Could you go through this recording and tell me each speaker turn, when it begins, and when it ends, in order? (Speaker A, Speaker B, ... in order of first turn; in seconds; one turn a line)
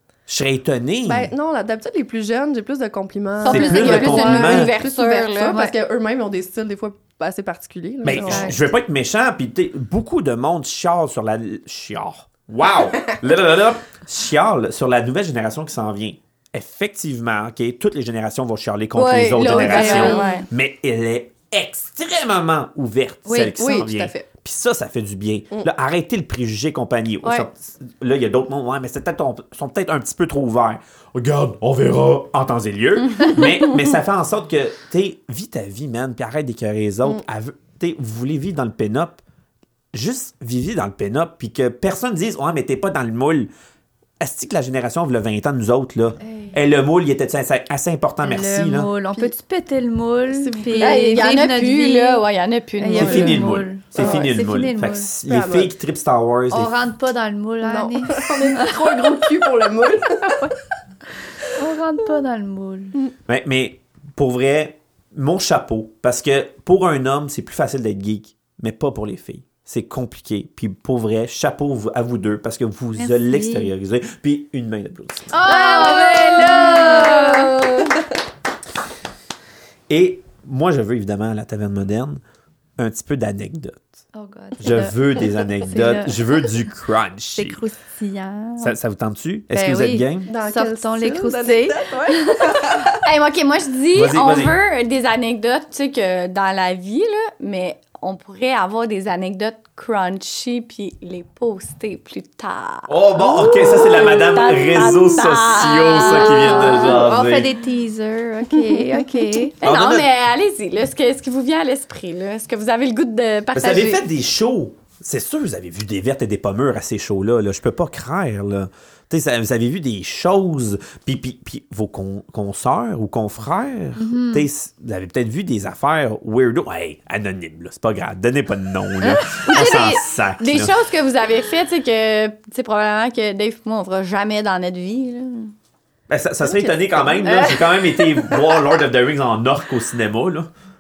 Speaker A: 0.3-1.3
Speaker B: 1.1-8.6
Speaker C: 3.4-5.6
Speaker A: 3.5-4.7
Speaker D: 3.8-4.3
Speaker D: 5.5-5.8
Speaker A: 8.0-39.2
Speaker D: 8.2-8.6
Speaker C: 18.9-20.5
Speaker D: 19.6-20.4
Speaker B: 19.7-20.2
Speaker D: 23.2-23.9
Speaker B: 23.6-24.3
Speaker C: 33.2-33.6
Speaker A: 39.9-43.5
Speaker A: 44.2-48.9
Speaker D: 46.2-46.5
Speaker D: 48.2-52.2
Speaker B: 50.3-51.2
Speaker C: 50.8-53.4
Speaker D: 52.8-55.1
Speaker A: 53.0-56.8
Speaker B: 54.0-54.3
Speaker B: 55.3-55.7
Speaker D: 56.5-59.2
Speaker B: 57.6-60.5
Speaker D: 60.2-60.5
Speaker D: 61.5-63.0
Speaker A: 63.3-75.3
Speaker D: 73.0-73.7
Speaker D: 75.3-77.6
Speaker C: 75.5-78.0
Speaker B: 76.5-77.3
Speaker A: 79.9-82.2
Speaker A: 82.8-84.0
Speaker D: 84.1-86.5
Speaker A: 84.6-87.6
Speaker D: 87.4-88.8
Speaker A: 88.6-90.3
Speaker D: 89.5-92.7
Speaker B: 90.3-93.0
Speaker C: 93.0-107.0
Speaker A: 93.9-94.5
Speaker A: 102.9-107.5
Speaker D: 106.1-109.5
Speaker B: 108.7-109.0
Speaker C: 109.6-114.0
Speaker A: 109.6-110.1
Speaker A: 113.5-130.7
Speaker D: 124.0-124.5
Speaker C: 129.0-135.5
Speaker A: 136.1-140.5
Speaker B: 136.4-137.5
Speaker C: 137.2-137.8